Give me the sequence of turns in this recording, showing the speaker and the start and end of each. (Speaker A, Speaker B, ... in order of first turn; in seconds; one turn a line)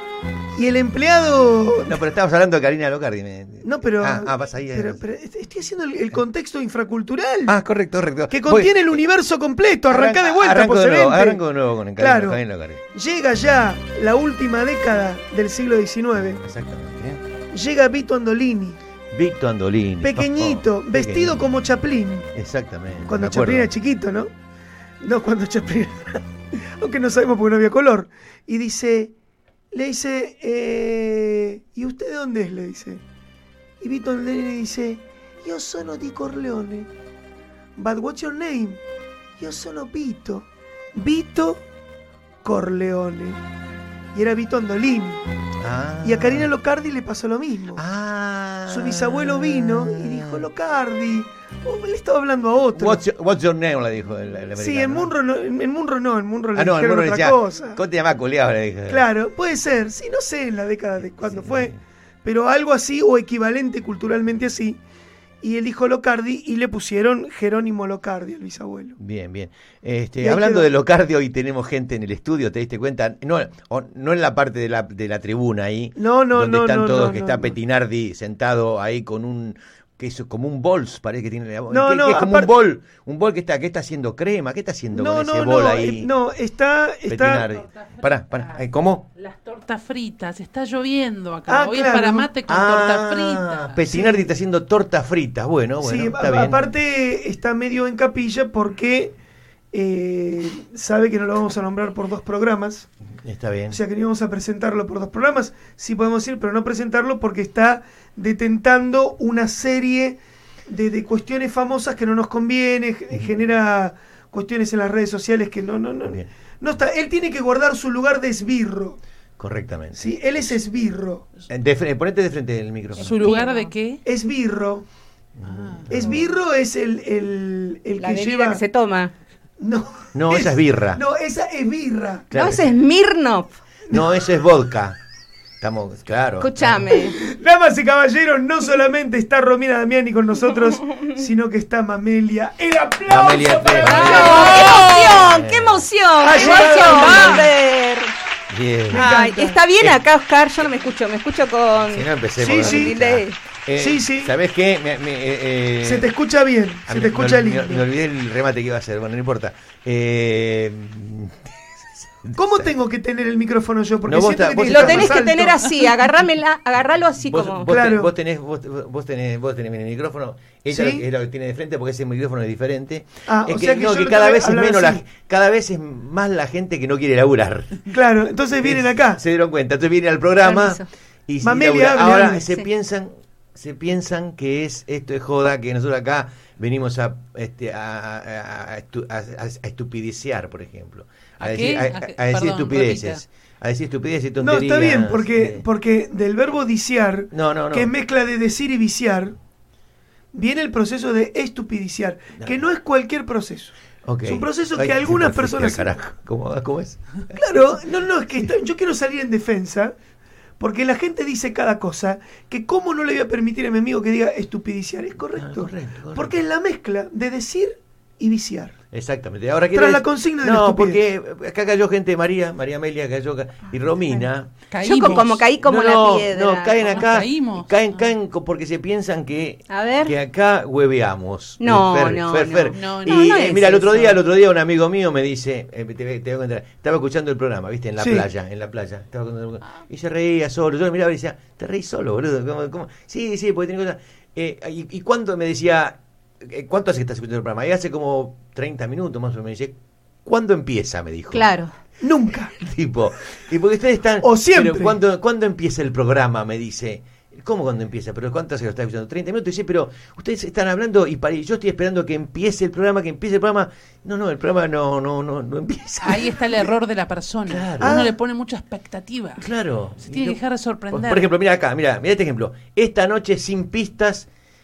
Speaker A: 0.6-2.0
Speaker B: 1.8-5.0
Speaker A: 3.6-7.6
Speaker B: 7.5-8.7
Speaker A: 8.3-11.4
Speaker B: 9.9-12.8
Speaker A: 12.0-12.4
Speaker A: 12.9-16.4
Speaker B: 16.4-17.2
Speaker A: 17.5-18.8
Speaker B: 19.1-21.4
Speaker A: 20.0-22.3
Speaker B: 22.4-23.7
Speaker A: 23.1-24.3
Speaker A: 25.0-29.1
Speaker A: 29.7-33.0
Speaker A: 33.8-36.9
Speaker A: 37.8-38.8
Speaker A: 39.4-41.6
Speaker A: 42.4-43.4
Speaker A: 44.1-45.2
Speaker B: 45.6-46.5
Speaker A: 46.0-47.8
Speaker B: 47.8-50.5
Speaker A: 48.7-53.0
Speaker B: 52.7-55.1
Speaker A: 54.6-57.8
Speaker B: 56.5-59.1
Speaker A: 58.9-64.8
Speaker B: 61.2-61.7
Speaker A: 65.4-69.0
Speaker B: 69.0-86.1
Speaker A: 70.2-70.7
Speaker A: 76.0-77.5
Speaker A: 81.7-82.5
Speaker A: 84.9-87.5
Speaker B: 87.1-89.1
Speaker C: 87.7-88.6
Speaker C: 89.2-93.8
Speaker A: 91.5-92.3
Speaker B: 92.5-96.6
Speaker A: 93.9-94.3
Speaker A: 95.8-99.2
Speaker A: 99.7-102.9
Speaker B: 103.2-103.8
Speaker A: 103.7-119.0
Speaker B: 119.4-120.2
Speaker A: 120.0-121.3
Speaker B: 121.5-123.1
Speaker C: 123.0-124.0
Speaker D: 123.0-123.7
Speaker A: 124.0-124.9
Speaker B: 125.4-126.3
Speaker C: 125.5-125.8
Speaker A: 125.9-128.6
Speaker D: 128.0-129.1
Speaker A: 129.6-132.3
Speaker B: 130.1-131.0
Speaker B: 132.3-132.8
Speaker D: 132.3-133.6
Speaker B: 133.9-135.0
Speaker B: 135.6-137.1
Speaker D: 136.4-137.2
Speaker A: 137.1-144.8
Speaker B: 143.1-145.9
Speaker C: 143.8-145.2
Speaker D: 143.9-148.1
Speaker A: 146.2-147.5
Speaker C: 146.4-147.5
Speaker B: 148.5-149.1
Speaker D: 148.9-153.4
Speaker A: 148.9-149.6
Speaker B: 151.9-156.1
Speaker A: 152.4-152.9
Speaker A: 153.8-154.3
Speaker A: 155.8-157.8
Speaker B: 156.9-162.7
Speaker A: 162.3-165.6
Speaker B: 164.1-165.3
Speaker D: 164.7-167.7
Speaker B: 167.3-177.8
Speaker A: 167.7-168.1
Speaker A: 170.7-171.0
Speaker A: 173.3-175.0
Speaker A: 177.9-179.2
Speaker B: 178.6-195.7
Speaker D: 180.4-180.9
Speaker A: 181.4-182.4
Speaker C: 191.4-193.2
Speaker A: 194.4-199.4
Speaker B: 197.3-197.9
Speaker A: 200.3-206.0
Speaker B: 204.1-207.4
Speaker A: 207.3-209.9
Speaker A: 210.6-218.8
Speaker B: 215.4-216.4
Speaker B: 218.9-251.5
Speaker A: 219.7-221.0
Speaker C: 224.7-225.4
Speaker D: 224.8-227.0
Speaker C: 227.0-227.7
Speaker D: 229.7-230.2
Speaker D: 231.6-234.2
Speaker C: 232.7-233.4
Speaker A: 238.0-238.2
Speaker D: 251.3-251.7
Speaker A: 252.0-252.6
Speaker B: 252.6-266.7
Speaker A: 254.2-255.0
Speaker C: 266.0-269.5
Speaker B: 267.5-268.0
Speaker A: 267.8-268.1
Speaker B: 269.4-270.4
Speaker C: 270.0-271.3
Speaker B: 270.9-274.3